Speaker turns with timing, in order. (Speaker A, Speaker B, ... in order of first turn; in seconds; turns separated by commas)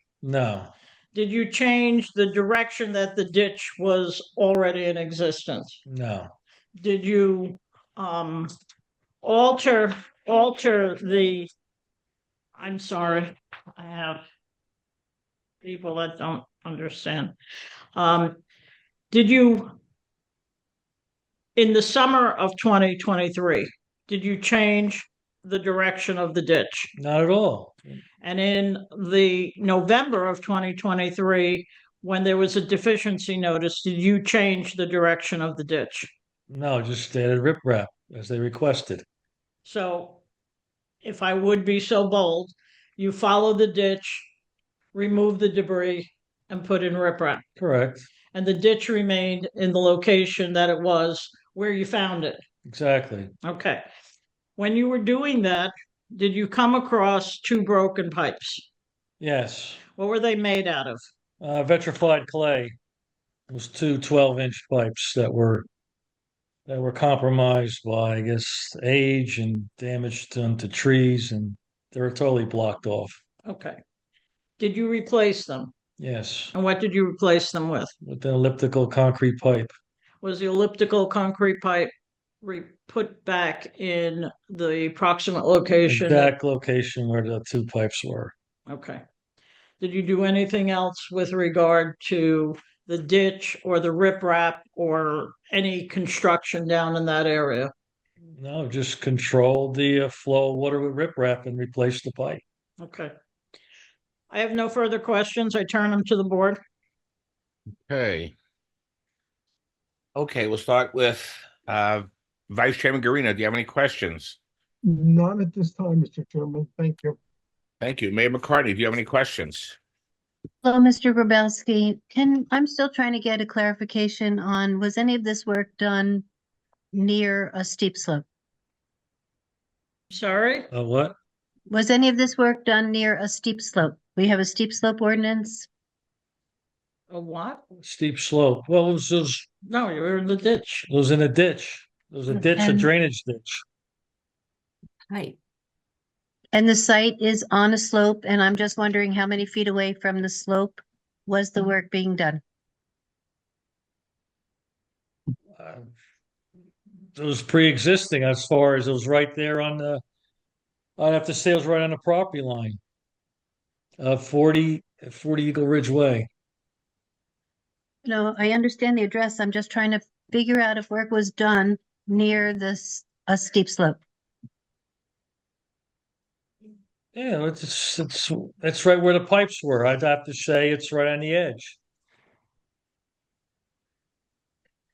Speaker A: 0.2-0.7, Speaker B: 1.1-5.8, Speaker A: 5.9-6.3, Speaker B: 6.8-8.5, Speaker B: 9.2-11.5, Speaker B: 12.6-14.2, Speaker B: 15.6-17.4, Speaker B: 18.0-18.4, Speaker B: 19.1-19.7, Speaker B: 21.6-26.9, Speaker A: 27.0-28.0, Speaker B: 28.2-36.1, Speaker A: 36.5-39.0, Speaker B: 39.6-40.2, Speaker B: 41.0-44.3, Speaker B: 44.9-47.4, Speaker A: 47.6-48.1, Speaker B: 48.3-52.4, Speaker A: 52.7-53.3, Speaker B: 53.4-53.9, Speaker B: 54.6-58.7, Speaker A: 59.2-59.8, Speaker B: 60.0-61.0, Speaker A: 61.4-62.8, Speaker A: 63.5-65.7, Speaker A: 66.7-73.2, Speaker B: 73.5-73.8, Speaker B: 74.6-75.7, Speaker A: 76.0-76.5, Speaker B: 76.5-77.9, Speaker A: 78.0-79.7, Speaker B: 80.2-86.3, Speaker A: 85.9-88.3, Speaker B: 88.7-89.0, Speaker B: 89.8-97.7, Speaker A: 98.4-102.4, Speaker B: 102.8-103.1, Speaker B: 104.3-106.6, Speaker C: 107.9-108.3, Speaker C: 110.2-114.4, Speaker D: 114.9-117.2, Speaker C: 117.8-119.8, Speaker E: 120.6-126.3, Speaker E: 126.9-128.2, Speaker B: 130.1-130.7, Speaker A: 130.7-131.2, Speaker E: 131.7-135.7, Speaker B: 137.1-137.6, Speaker A: 137.8-139.5, Speaker B: 139.7-140.9, Speaker A: 140.9-143.6, Speaker E: 142.6-142.9, Speaker E: 146.5-152.4, Speaker A: 155.6-155.9, Speaker A: 157.2-160.0, Speaker A: 161.0-162.8, Speaker A: 164.0-166.3, Speaker E: 168.1-174.0, Speaker A: 177.2-181.8